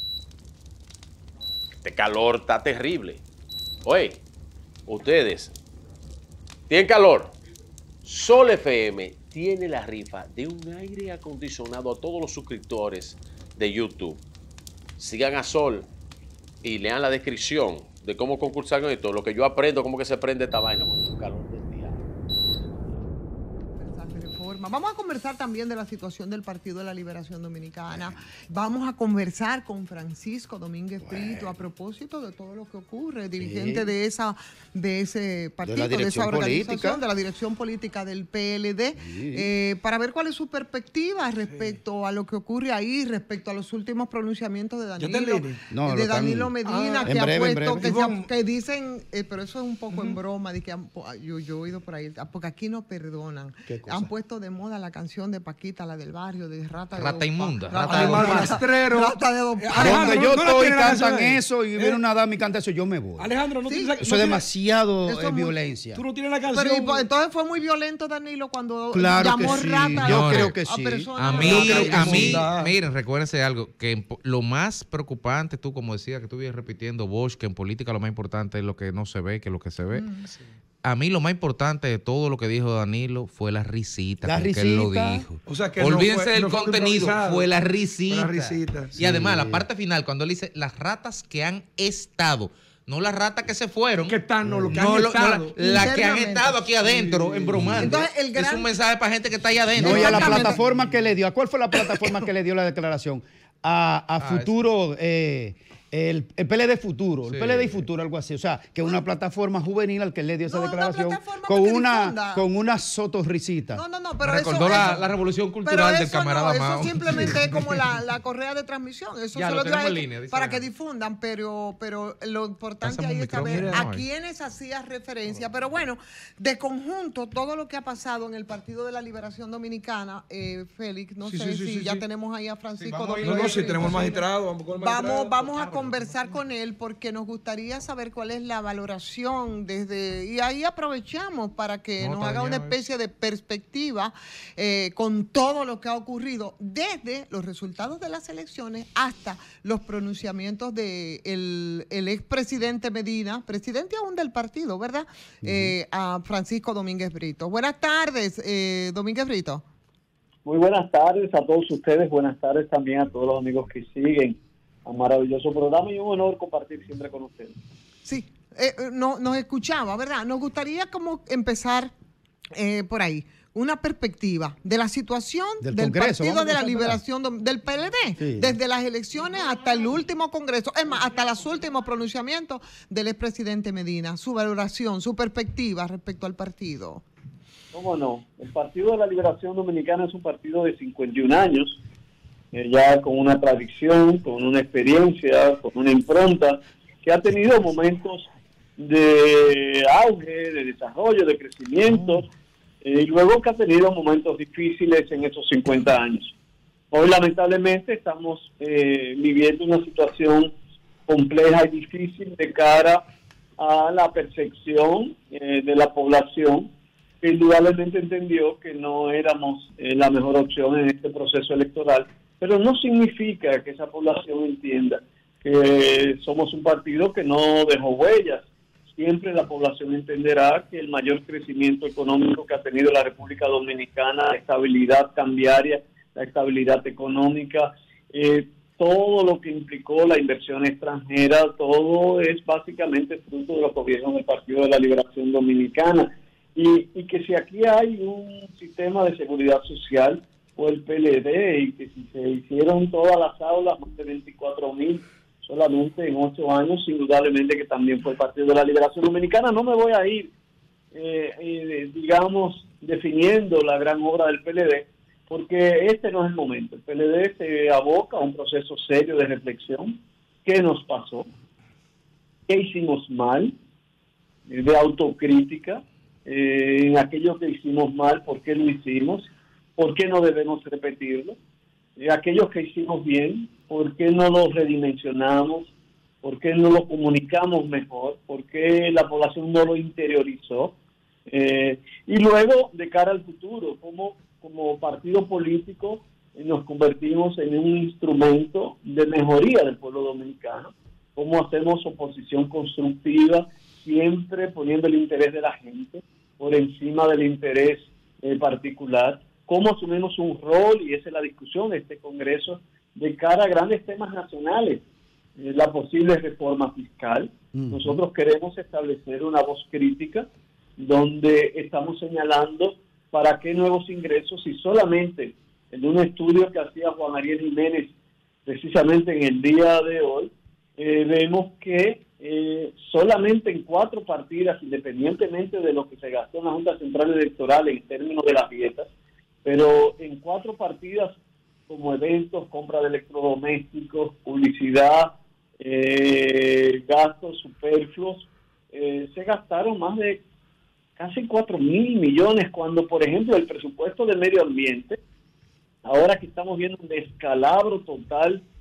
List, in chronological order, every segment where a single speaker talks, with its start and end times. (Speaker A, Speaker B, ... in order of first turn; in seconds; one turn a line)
Speaker A: 1.8-3.2
Speaker A: 3.8-4.2
Speaker A: 4.9-5.5
Speaker A: 6.7-7.3
Speaker A: 8.0-14.2
Speaker A: 15.0-15.9
Speaker A: 16.6-22.1
Speaker B: 23.8-60.5
Speaker C: 27.9-28.2
Speaker C: 31.0-31.6
Speaker C: 33.4-33.9
Speaker C: 35.6-37.0
Speaker C: 39.0-39.5
Speaker D: 41.5-41.8
Speaker D: 45.0-45.7
Speaker C: 45.7-46.5
Speaker D: 46.6-48.3
Speaker C: 47.0-48.0
Speaker D: 49.9-50.2
Speaker C: 53.7-54.1
Speaker E: 57.0-58.6
Speaker D: 57.8-62.0
Speaker C: 59.7-63.3
Speaker D: 63.2-64.5
Speaker B: 63.6-63.9
Speaker C: 64.0-66.0
Speaker B: 65.0-65.5
Speaker D: 65.9-67.0
Speaker B: 66.5-72.5
Speaker C: 68.9-72.5
Speaker E: 69.9-70.5
Speaker E: 71.2-80.1
Speaker D: 71.2-72.7
Speaker B: 79.9-80.2
Speaker E: 80.8-94.2
Speaker C: 84.2-85.2
Speaker D: 85.5-87.5
Speaker D: 88.1-89.0
Speaker C: 89.0-89.6
Speaker D: 94.0-95.6
Speaker C: 94.4-94.8
Speaker E: 94.7-100.6
Speaker B: 95.6-96.6
Speaker D: 96.8-97.8
Speaker C: 97.5-97.9
Speaker B: 97.7-98.7
Speaker C: 99.8-113.8
Speaker B: 99.8-100.6
Speaker E: 104.2-104.5
Speaker E: 107.2-107.8
Speaker B: 110.5-112.4
Speaker B: 113.7-115.1
Speaker E: 114.2-117.8
Speaker B: 115.6-159.6
Speaker E: 119.3-120.7
Speaker E: 122.8-124.0
Speaker D: 123.4-123.8
Speaker D: 131.2-132.0
Speaker D: 132.8-136.1
Speaker E: 133.2-133.7
Speaker E: 142.0-142.8
Speaker C: 155.4-155.7
Speaker F: 160.4-167.6
Speaker B: 168.0-171.9
Speaker B: 172.5-187.0
Speaker C: 175.6-177.0
Speaker C: 178.2-178.6
Speaker F: 187.7-191.8
Speaker F: 192.5-198.3
Speaker F: 198.8-202.3
Speaker F: 202.8-206.3
Speaker F: 206.9-210.5
Speaker F: 211.1-213.0
Speaker F: 213.6-216.7
Speaker F: 217.2-260.3
Speaker F: 260.9-271.2
Speaker F: 272.5-273.5
Speaker F: 274.5-281.4
Speaker F: 282.0-285.7
Speaker F: 286.2-290.7
Speaker F: 291.3-314.8
Speaker F: 315.4-327.9
Speaker C: 317.5-318.0
Speaker F: 328.4-338.9
Speaker F: 339.4-341.2
Speaker F: 341.7-350.2
Speaker F: 351.0-355.0
Speaker F: 355.8-358.4